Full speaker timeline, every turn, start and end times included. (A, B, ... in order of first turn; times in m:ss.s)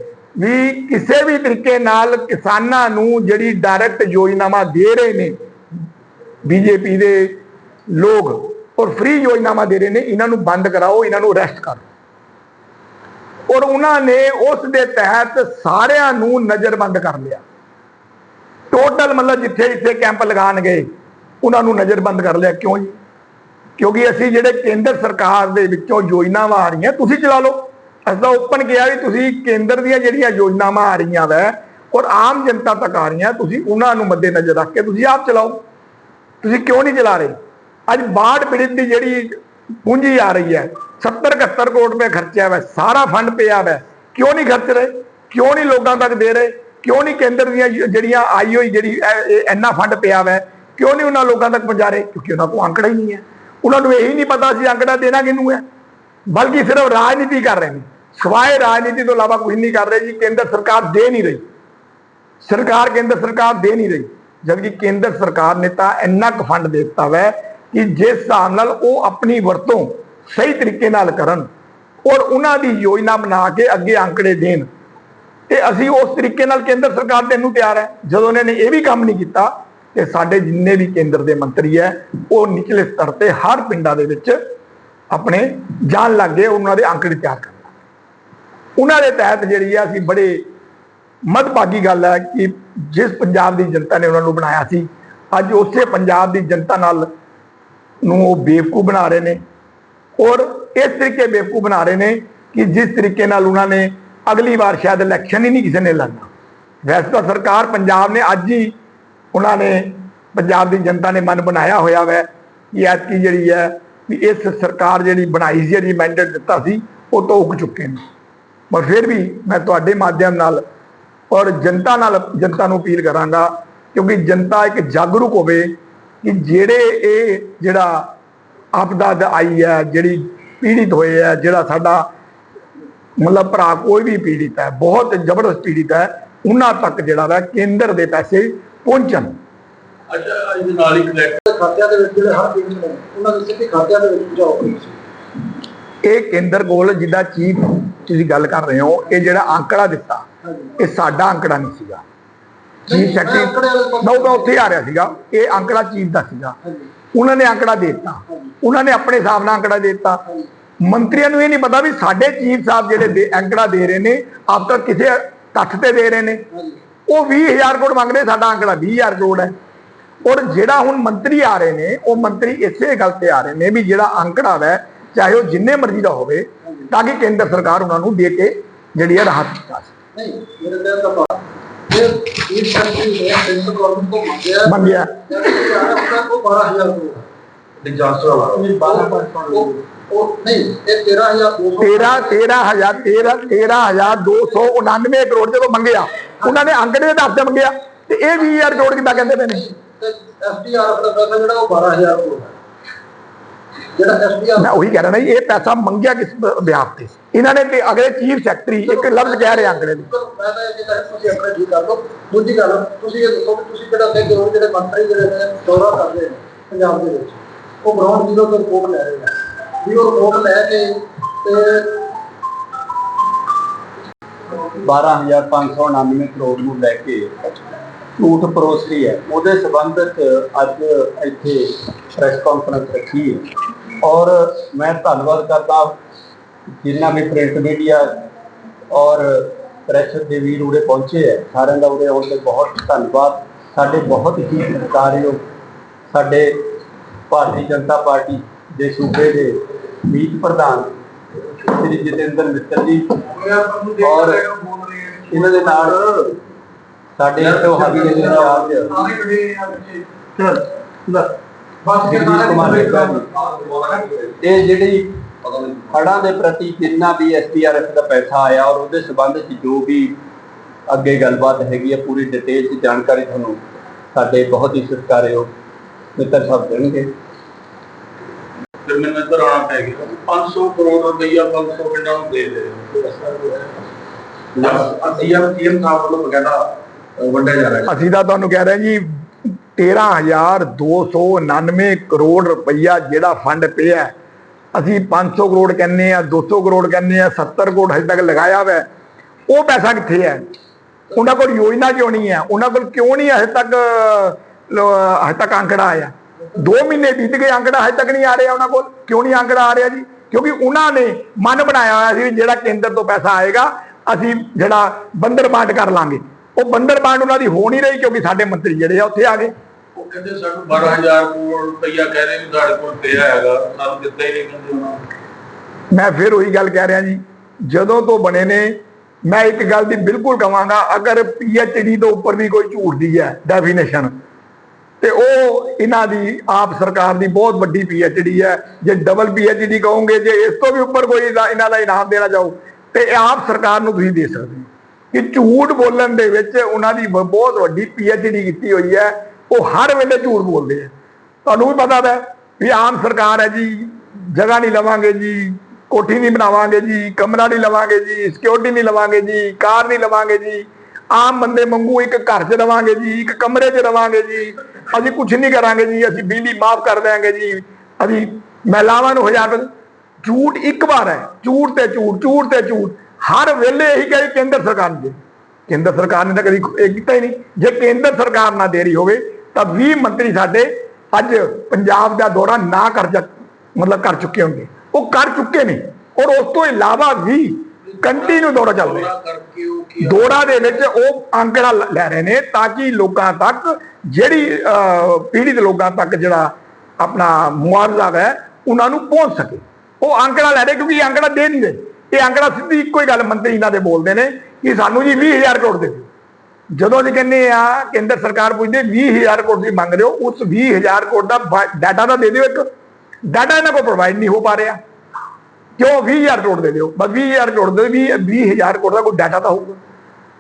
0:00.4-0:05.3 A
0:06.4-0:07.3 A
0:07.9-0:11.9 A
0:13.5-0:17.4 A
0:18.7-0:20.9 A
0:21.4-0:23.0 A
0:23.8-0:35.6 A
0:36.4-0:37.4 A
0:37.9-0:55.6 A
0:56.3-1:01.4 A
1:02.4-1:11.5 A
1:12.0-1:14.7 A
1:15.5-1:24.4 A
1:25.1-1:27.7 A
1:28.8-1:30.4 A
1:31.3-1:37.1 A
1:38.0-1:39.4 A
1:40.2-1:46.3 A
1:46.8-1:48.7 A
1:49.3-1:58.0 A
1:58.7-2:00.6 A
2:01.3-2:05.7 A
2:06.2-2:08.1 A
2:08.8-2:12.0 A
2:13.2-2:19.4 A
2:20.1-2:21.4 B
2:21.5-2:25.0 C
2:26.0-2:30.2 A
2:30.5-2:30.8 C
2:30.8-2:32.0 A
2:32.9-2:34.8 C
2:32.9-2:36.6 A
2:37.1-2:40.2 A
2:40.8-2:46.4 A
2:46.5-2:46.8 C
2:47.1-2:49.5 A
2:50.2-2:59.9 A
3:00.2-3:07.2 C
3:04.6-3:05.7 A
3:07.8-3:08.7 B
3:08.6-3:09.8 D
3:08.8-3:12.5 C
3:11.8-3:19.7 A
3:19.7-3:22.5 C
3:23.9-3:24.8 C
3:24.6-3:30.1 A
3:28.8-3:42.1 C
3:44.7-3:47.4 D
3:48.2-3:53.5 D
3:54.0-3:56.0 D
3:56.8-3:58.2 D
3:58.9-4:05.4 D
4:06.1-4:06.5 D
4:07.3-4:11.0 D
4:11.6-4:13.2 D
4:13.4-4:16.1 B
4:14.0-4:14.5 D
4:15.3-4:16.0 D
4:17.2-4:19.0 D
4:17.4-4:21.3 B
4:21.9-4:24.4 B
4:22.0-4:23.3 D
4:24.4-4:25.2 D
4:25.4-4:25.9 B
4:25.9-4:30.2 D
4:30.9-4:33.6 D
4:34.1-4:35.5 D
4:36.2-4:37.1 D
4:38.8-4:43.8 B
4:44.6-4:48.0 B
4:47.9-4:54.1 A
4:54.7-4:58.8 A
4:59.5-5:00.4 A
5:01.1-5:19.5 A
5:20.0-5:25.0 B
5:25.9-5:28.8 A
5:29.3-5:34.1 A
5:35.0-5:50.9 A
5:51.5-6:09.7 A
6:10.2-6:15.2 A
6:15.7-6:29.1 A
6:27.9-6:30.8 B
6:30.0-6:46.1 A
6:46.8-6:52.7 A
6:53.3-6:54.8 A
6:55.8-6:59.8 A